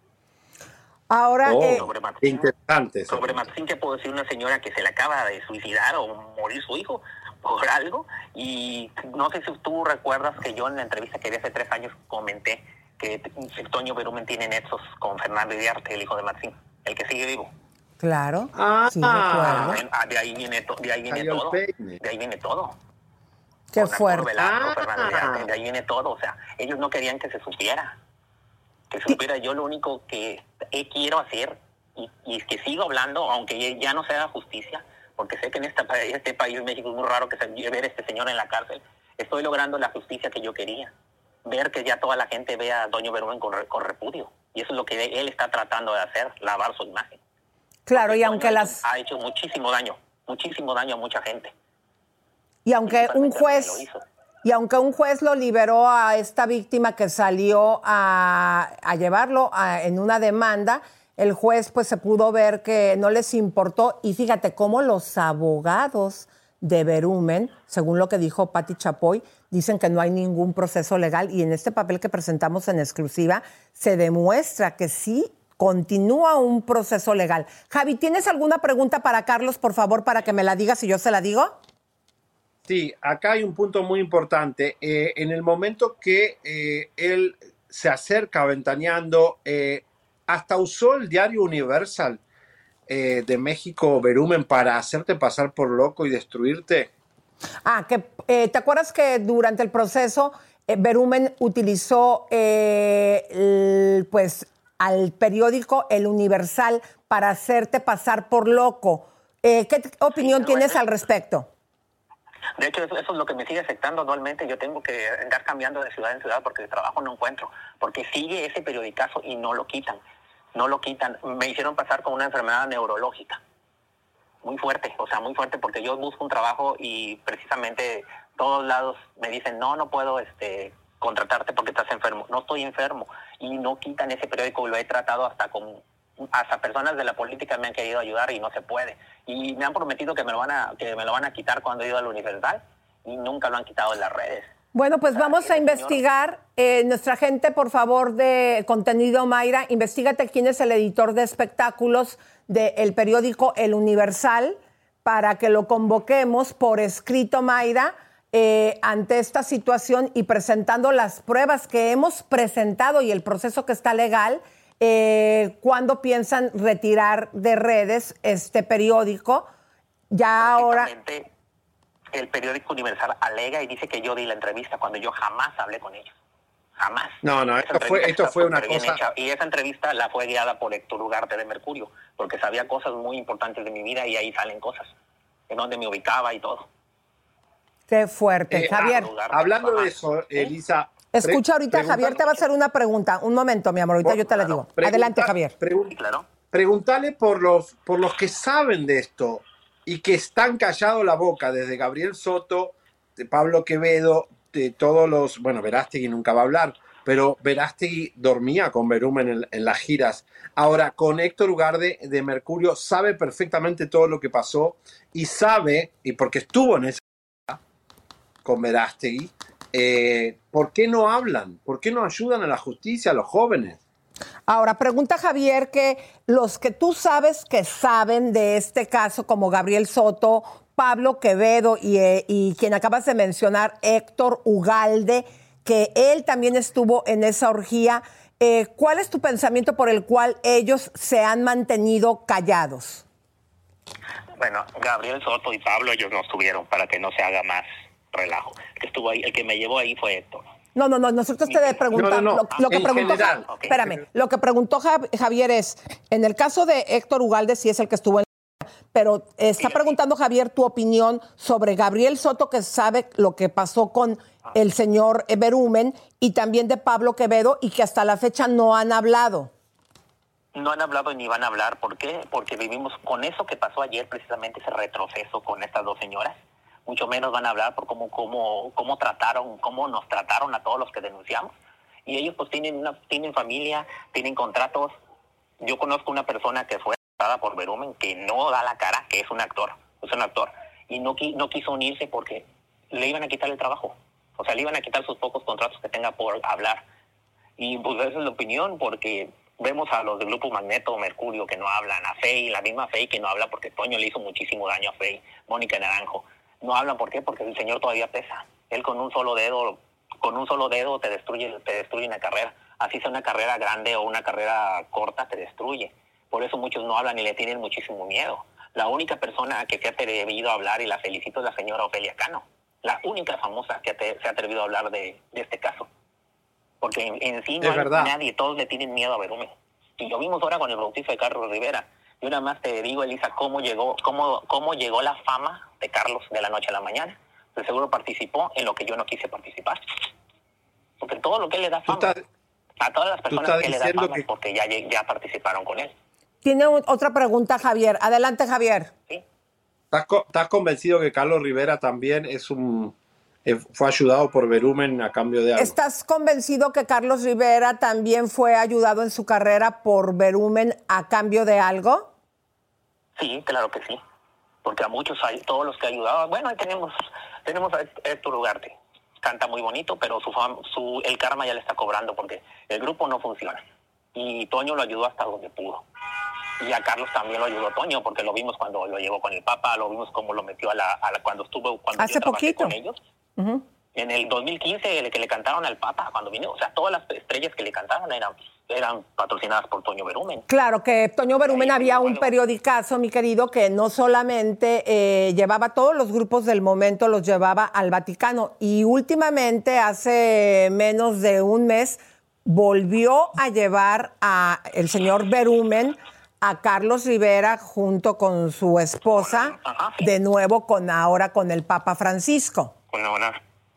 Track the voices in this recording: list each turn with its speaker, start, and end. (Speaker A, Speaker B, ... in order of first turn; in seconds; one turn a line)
Speaker A: 1.1-1.9
Speaker B: 1.4-3.5
Speaker C: 1.7-2.4
Speaker C: 3.1-17.5
Speaker A: 18.0-19.8
Speaker B: 18.5-19.8
Speaker C: 19.6-22.8
Speaker B: 21.1-22.0
Speaker A: 23.7-24.3
Speaker C: 23.8-27.9
Speaker B: 24.4-25.5
Speaker C: 28.9-40.9
Speaker C: 41.5-47.2
Speaker A: 47.9-48.8
Speaker C: 47.9-51.5
Speaker A: 52.7-53.8
Speaker C: 52.9-54.0
Speaker A: 54.4-81.6
Speaker B: 82.7-92.2
Speaker B: 92.9-96.9
Speaker A: 97.7-111.5
Speaker C: 110.2-110.8
Speaker C: 112.6-120.0
Speaker C: 120.5-123.4
Speaker C: 124.4-135.8
Speaker C: 136.3-144.5
Speaker A: 144.7-169.5
Speaker C: 145.2-146.0
Speaker A: 170.1-170.9
Speaker C: 170.4-171.3
Speaker C: 172.1-176.1
Speaker C: 176.8-184.9
Speaker B: 177.2-179.0
Speaker C: 185.5-186.7
Speaker A: 187.9-189.1
Speaker B: 188.5-192.4
Speaker C: 188.9-189.9
Speaker A: 191.1-195.5
Speaker B: 194.0-217.6
Speaker C: 195.9-196.3
Speaker B: 218.4-223.8
Speaker A: 224.5-243.1
Speaker C: 244.4-250.4
Speaker A: 250.8-258.3
Speaker B: 251.9-254.0
Speaker A: 258.9-269.5
Speaker C: 270.6-276.4
Speaker C: 276.9-281.5
Speaker C: 282.1-284.9
Speaker C: 285.6-296.8
Speaker C: 297.6-325.9
Speaker C: 326.8-339.8
Speaker B: 327.6-328.1
Speaker C: 341.0-342.1
Speaker B: 341.9-342.2
Speaker C: 342.8-345.9
Speaker B: 343.3-344.3
Speaker A: 346.4-348.9
Speaker B: 349.9-352.9
Speaker B: 353.4-355.8
Speaker A: 355.6-362.1
Speaker C: 363.2-364.0
Speaker C: 364.6-373.6
Speaker C: 374.1-375.8
Speaker C: 376.6-383.0
Speaker A: 382.0-382.8
Speaker C: 384.0-390.4
Speaker A: 390.5-412.7
Speaker C: 391.5-392.3
Speaker C: 409.1-410.1
Speaker C: 412.9-413.4